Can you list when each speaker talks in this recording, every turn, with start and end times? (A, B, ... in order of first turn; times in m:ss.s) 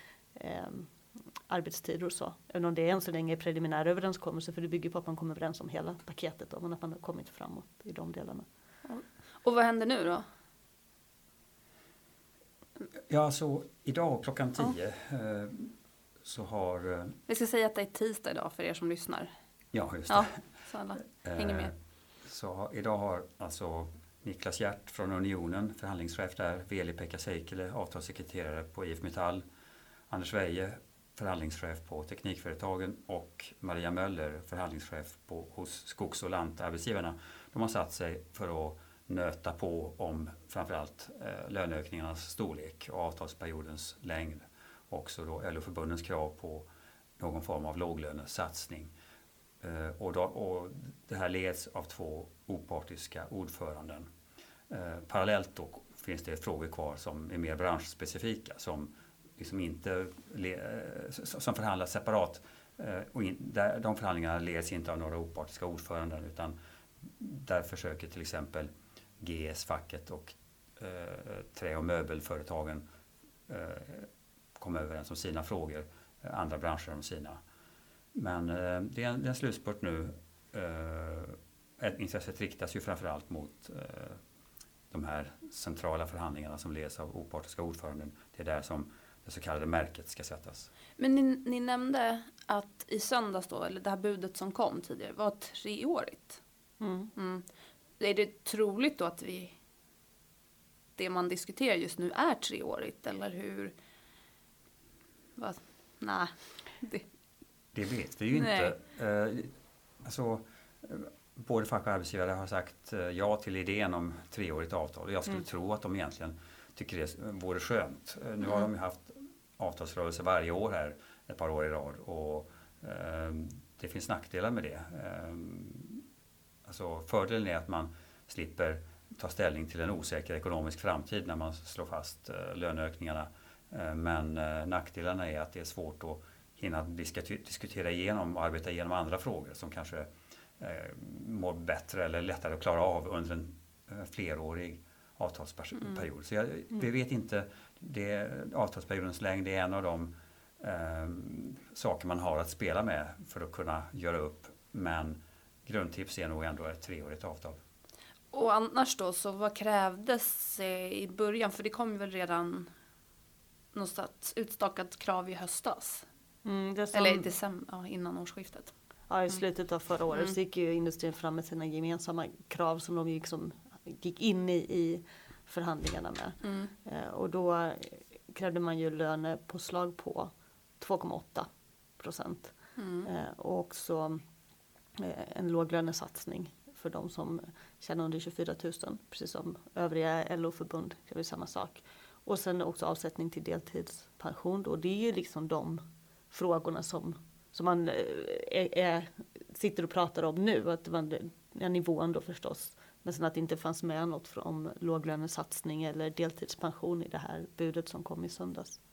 0:00.4-0:00.9 A
0:01.5-0:08.4 A
0:08.8-0:10.2 B
0:13.1-0:17.2 C
0:17.3-0:19.3 B
0:19.7-0:20.4 C
0:20.1-0:21.7 B
0:21.2-0:21.7 C
0:22.2-0:29.4 C
0:30.1-0:46.7 C
0:47.2-0:48.9 C
0:49.6-0:54.1 C
0:54.7-1:06.6 C
1:07.2-1:12.8 C
1:13.5-1:17.4 C
1:18.2-1:24.2 C
1:24.9-1:30.7 C
1:31.0-1:36.4 B
1:36.8-1:37.1 A
1:37.2-1:37.4 B
1:38.0-1:39.6 B
1:41.0-1:43.7 B
1:45.4-1:47.0 B
1:47.7-2:06.0 C
1:48.3-1:48.7 B
2:06.7-2:20.1 C
2:20.6-2:37.6 C
2:38.3-2:42.7 B
2:43.7-2:46.1 B
2:46.4-2:47.3 A
2:46.9-2:48.7 B
2:49.1-3:01.5 A
2:56.4-2:56.7 B
3:02.0-3:02.5 A
3:02.8-3:03.1 B
3:03.1-3:04.2 A
3:05.0-3:15.8 A
3:16.3-3:28.8 A